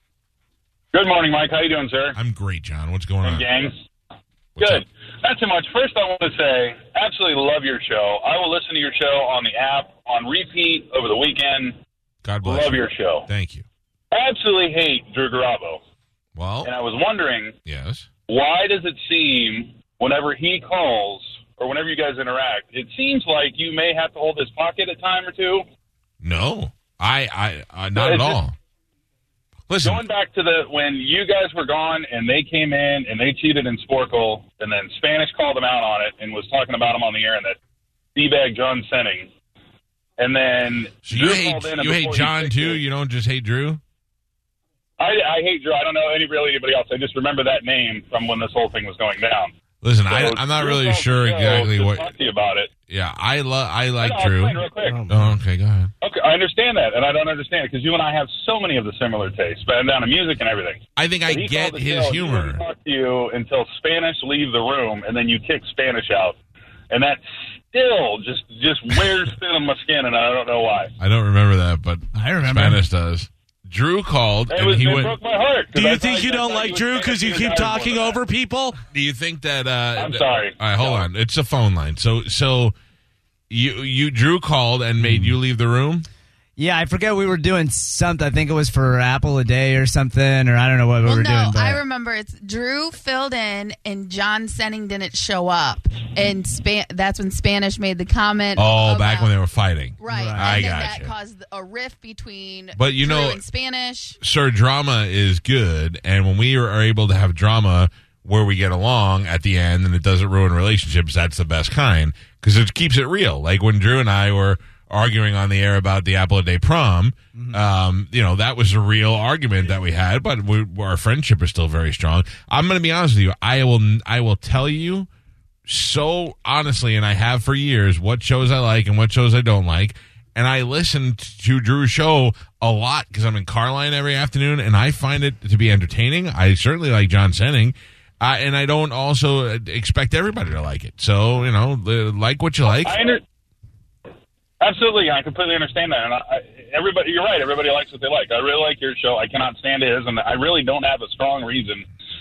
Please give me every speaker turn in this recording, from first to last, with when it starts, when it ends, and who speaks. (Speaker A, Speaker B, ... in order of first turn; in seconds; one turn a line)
Speaker A: 0.9-2.1
Speaker B: 2.1-3.5
Speaker A: 3.2-3.8
Speaker B: 4.6-4.8
Speaker A: 4.6-11.7
Speaker B: 12.2-13.6
Speaker A: 12.4-13.3
Speaker A: 14.1-15.8
Speaker B: 16.4-16.7
Speaker A: 16.6-17.5
Speaker B: 17.6-18.1
Speaker A: 18.3-25.6
Speaker B: 26.2-28.5
Speaker A: 27.9-28.4
Speaker B: 29.7-30.0
Speaker A: 29.8-37.6
Speaker A: 38.1-39.3
Speaker A: 40.2-42.8
Speaker B: 41.0-43.8
Speaker A: 45.0-49.5
Speaker B: 49.8-52.1
Speaker A: 50.1-52.7
Speaker B: 52.9-55.9
Speaker A: 54.0-55.0
Speaker C: 54.8-55.4
Speaker A: 56.0-66.4
Speaker B: 61.0-62.6
Speaker A: 66.9-70.9
Speaker B: 71.0-75.1
Speaker D: 72.1-72.8
Speaker A: 74.5-78.2
Speaker C: 75.7-78.8
Speaker B: 78.9-82.7
Speaker A: 80.0-81.1
Speaker B: 83.5-86.1
Speaker D: 85.0-85.3
Speaker D: 86.6-91.8
Speaker E: 91.0-99.3
Speaker B: 98.5-101.1
Speaker E: 100.0-104.2
Speaker D: 100.1-100.5
Speaker B: 102.8-103.4
Speaker B: 104.2-125.1
Speaker D: 117.3-117.6
Speaker B: 125.7-142.9
Speaker A: 142.7-143.2
Speaker A: 144.6-151.8